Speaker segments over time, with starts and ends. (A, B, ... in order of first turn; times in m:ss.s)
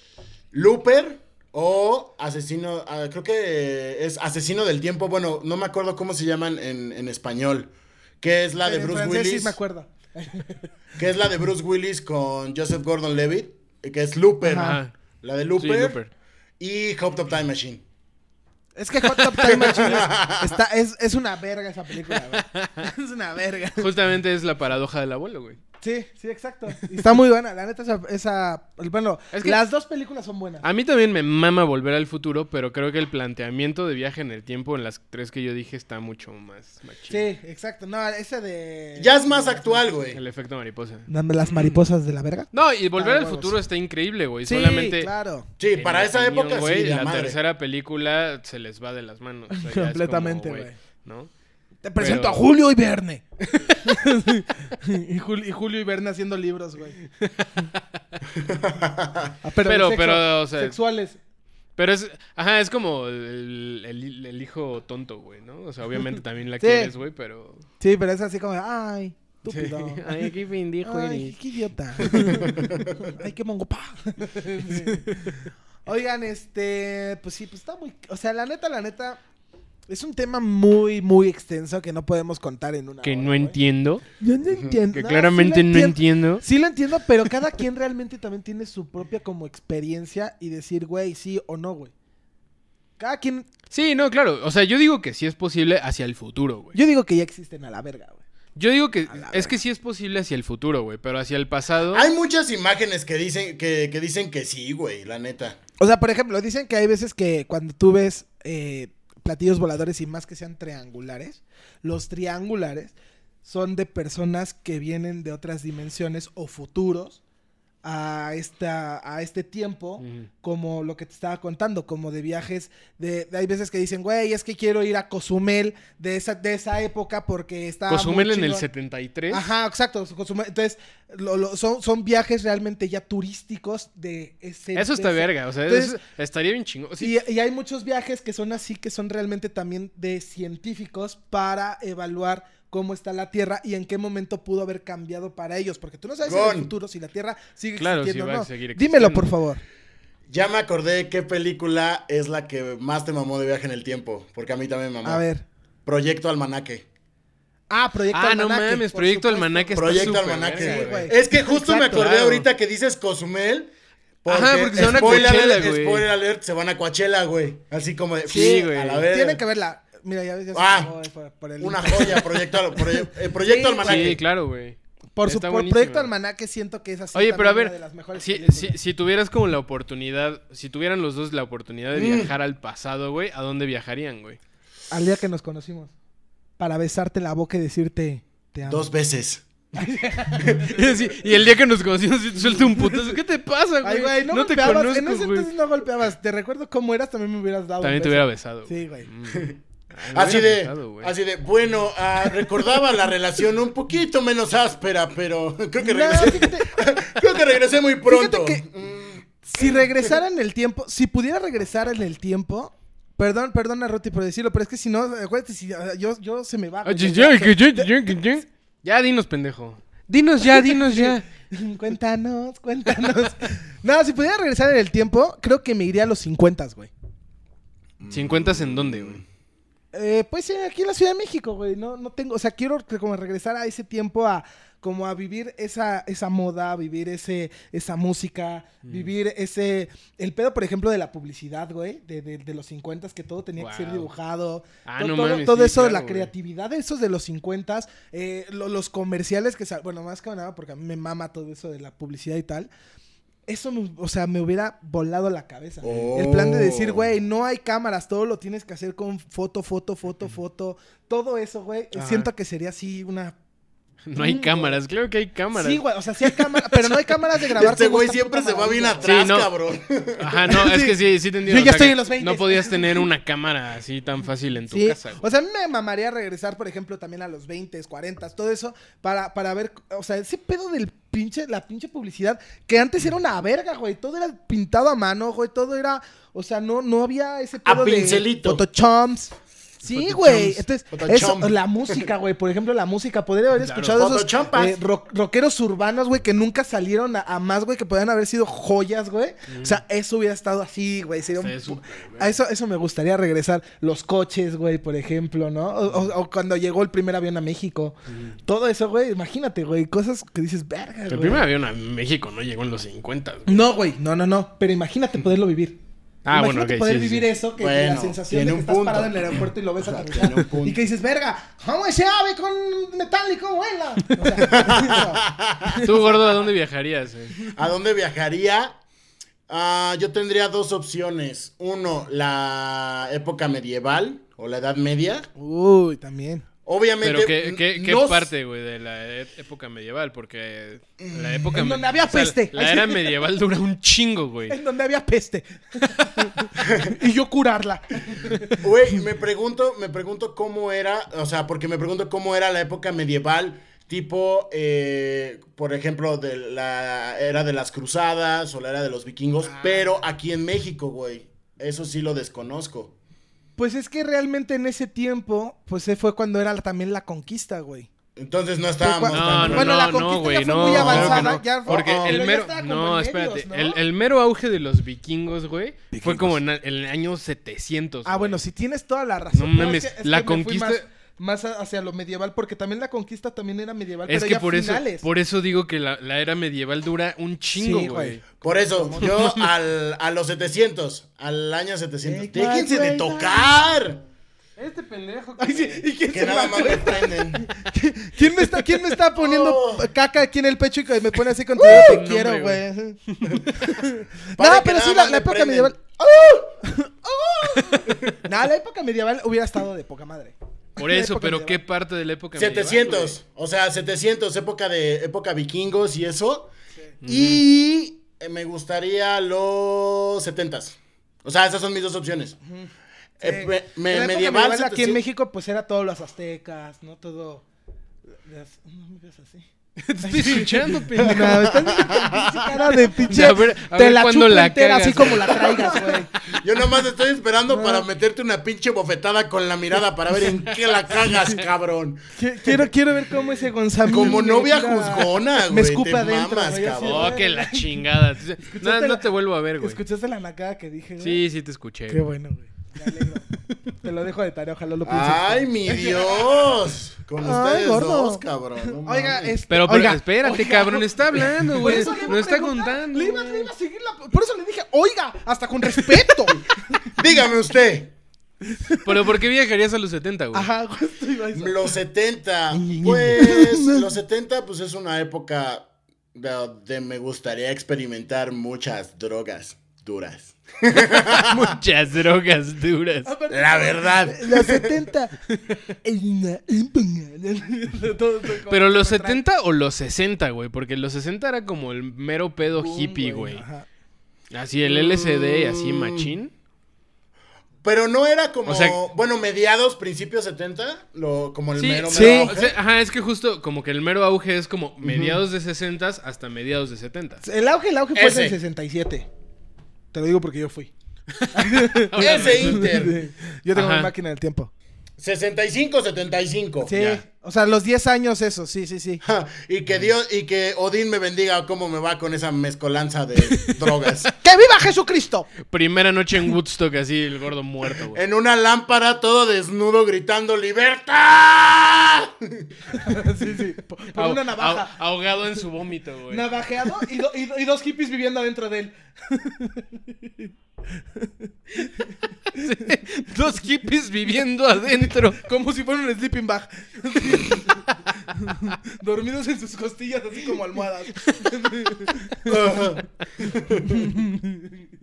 0:00.5-0:09.6 A
0:08.6-0:10.7 B
0:11.0-0:16.0 A
0:14.4-0:14.8 B
0:14.5-0:14.9 C
0:15.6-0:16.1 C
0:16.6-0:17.8 A
0:18.8-0:23.9 B
0:19.4-0:20.6 A
0:22.1-0:22.9 C
0:23.8-0:25.6 C
0:25.8-0:30.6 B
0:30.6-0:37.3 C
0:37.1-0:39.9 B
0:39.0-0:40.2 A
0:40.1-0:41.7 C
0:41.1-0:43.6 B
0:42.5-0:45.1 C
0:44.4-0:45.5 B
0:45.6-0:47.4 A
0:45.7-0:51.3 C
0:49.5-0:50.8 B
0:51.8-0:53.2 B
0:52.0-0:52.4 C
0:53.6-0:53.9 C
0:53.8-0:57.0 B
0:57.2-0:57.8 C
0:58.4-0:59.3 A
0:59.4-1:01.2 B
0:59.6-1:00.8 C
1:01.8-1:07.6 C
1:06.6-1:06.9 B
1:07.8-1:10.3 B
1:09.5-1:11.4 C
1:10.8-1:15.2 B
1:12.0-1:12.4 C
1:12.5-1:12.9 A
1:14.7-1:15.4 C
1:15.8-1:19.2 B
1:19.9-1:23.6 B
1:23.0-1:24.0 C
1:24.2-1:31.9 B
1:24.5-1:24.8 A
1:24.9-1:26.4 C
1:33.0-1:33.5 B
1:33.7-1:36.8 C
1:36.7-1:38.2 B
1:38.6-1:42.0 C
1:39.1-1:39.6 B
1:41.9-1:45.6 A
1:45.8-1:57.2 B
1:57.8-2:08.6 B
2:00.0-2:00.3 C
2:07.9-2:09.5 C
2:09.3-2:16.0 B
2:14.7-2:17.2 C
2:17.0-2:29.6 B
2:26.2-2:26.7 A
2:27.8-2:29.3 C
2:30.3-2:35.2 A
2:35.0-2:35.4 B
2:35.8-2:36.8 A
2:37.7-2:42.0 B
2:38.1-2:41.1 C
2:39.7-2:43.7 A
2:41.9-2:42.4 C
2:44.2-2:49.4 A
2:44.3-2:46.0 C
2:48.3-2:52.3 B
2:48.3-2:49.0 C
2:50.5-2:50.9 A
2:51.6-2:54.2 A
2:53.4-2:54.2 B
2:53.8-2:56.1 C
2:55.2-2:58.8 B
2:57.1-3:04.4 C
3:01.9-3:02.3 A
3:04.9-3:05.9 B
3:06.6-3:08.9 B
3:08.7-3:09.4 A
3:09.7-3:10.7 B
3:10.4-3:10.8 A
3:10.7-3:15.5 C
3:12.4-3:13.1 B
3:13.8-3:19.1 B
3:17.8-3:21.1 C
3:20.1-3:29.8 A
3:25.8-3:26.8 B
3:28.0-3:28.6 B
3:29.4-3:38.3 B
3:36.8-3:41.2 C
3:40.4-3:46.9 B
3:48.0-3:49.2 A
3:48.1-3:49.2 C
3:49.9-4:12.7 B
3:58.8-3:59.1 C
4:03.6-4:04.1 C
4:04.8-4:06.3 C
4:13.5-4:23.3 B
4:15.8-4:17.1 A
4:21.9-4:22.3 C
4:24.0-4:26.4 C
4:24.2-4:24.8 B
4:25.5-4:29.2 B
4:27.5-4:30.5 A
4:29.0-4:29.5 C
4:30.2-4:35.2 C
4:30.5-4:33.1 B
4:34.7-5:07.9 B
4:47.6-4:48.6 A
4:50.1-4:52.0 A
4:53.6-4:54.1 C
4:53.9-4:54.8 A
4:59.5-4:59.8 C
5:01.4-5:02.4 C
5:08.1-5:08.3 C
5:08.4-5:11.4 B
5:11.1-5:13.7 C
5:13.5-5:15.8 B
5:16.2-5:17.3 C
5:16.3-5:26.1 B
5:17.6-5:20.8 A
5:24.2-5:24.5 C
5:24.5-5:25.8 A
5:25.8-5:27.4 C
5:27.5-5:28.8 A
5:29.5-5:35.3 A
5:35.4-5:36.4 B
5:36.6-5:38.3 A
5:37.0-5:44.6 C
5:41.0-5:41.5 A
5:41.5-5:43.1 B
5:44.5-5:48.6 B
5:46.0-5:46.3 C
5:48.6-6:02.9 A
5:59.4-6:00.0 B
6:03.6-6:07.9 B
6:08.2-6:10.0 A
6:08.8-6:13.8 B
6:09.1-6:18.4 C
6:10.6-6:12.2 A
6:15.9-6:16.4 B
6:18.0-6:25.0 B
6:19.3-6:20.8 C
6:24.1-6:28.2 C
6:27.5-6:29.1 B
6:28.4-6:34.0 A
6:29.0-6:29.4 C
6:32.0-6:33.5 B
6:34.6-6:35.9 C
6:35.4-6:51.6 B
6:36.1-6:37.5 A
6:39.1-6:39.9 A
6:41.6-6:42.0 A
6:41.6-6:43.5 C
6:44.4-6:45.8 A
6:50.8-6:53.2 C
6:52.3-6:56.5 A
6:57.0-6:57.4 C
6:57.0-7:02.4 A
7:03.2-7:05.0 A
7:03.2-7:07.4 B
7:08.2-7:09.4 B
7:09.8-7:11.5 C
7:10.0-7:16.1 B
7:11.1-7:12.4 A
7:13.0-7:15.9 C
7:16.3-7:22.1 A
7:17.5-7:17.8 B
7:22.1-7:27.8 B
7:23.8-7:27.2 A
7:26.7-7:29.8 C
7:28.5-7:29.0 B
7:29.6-7:31.2 B
7:31.0-7:32.1 C
7:31.9-7:33.3 B
7:33.8-7:36.2 B
7:34.8-7:39.4 A
7:37.2-7:38.2 B
7:38.8-7:46.9 B
7:39.5-7:43.5 C
7:41.7-7:42.1 A
7:46.9-7:47.9 A
7:48.5-7:48.9 B
7:48.8-7:50.5 C
7:50.3-7:51.7 B
7:51.3-8:01.5 A
7:52.5-7:53.9 B
8:01.0-8:03.1 C
8:03.0-8:05.2 B
8:03.3-8:04.7 A
8:05.8-8:09.2 B
8:08.5-8:13.4 C
8:12.6-8:13.6 B
8:14.3-8:16.3 C
8:14.6-8:16.1 A
8:17.6-8:22.6 A
8:18.4-8:18.8 C
8:21.6-8:27.2 C
8:21.9-8:22.3 B
8:24.8-8:25.2 A
8:27.2-8:29.1 B
8:27.9-8:28.4 A
8:29.9-8:30.7 B
8:31.2-8:32.7 C
8:31.3-8:34.5 B
8:32.0-8:33.0 A
8:33.5-8:33.9 C
8:35.0-8:36.7 A
8:36.6-8:39.0 B
8:36.7-8:37.0 C
8:39.0-8:44.1 A
8:43.4-8:44.1 C
8:44.2-8:45.3 B
8:45.4-8:48.0 C
8:47.9-8:52.4 A
8:52.7-8:54.7 B
8:53.9-8:56.3 C
8:56.1-9:00.3 B
9:00.9-9:02.4 B
9:02.3-9:05.2 C
9:05.2-9:12.3 B
9:11.0-9:11.9 C
9:12.2-9:13.8 A
9:13.7-9:14.6 B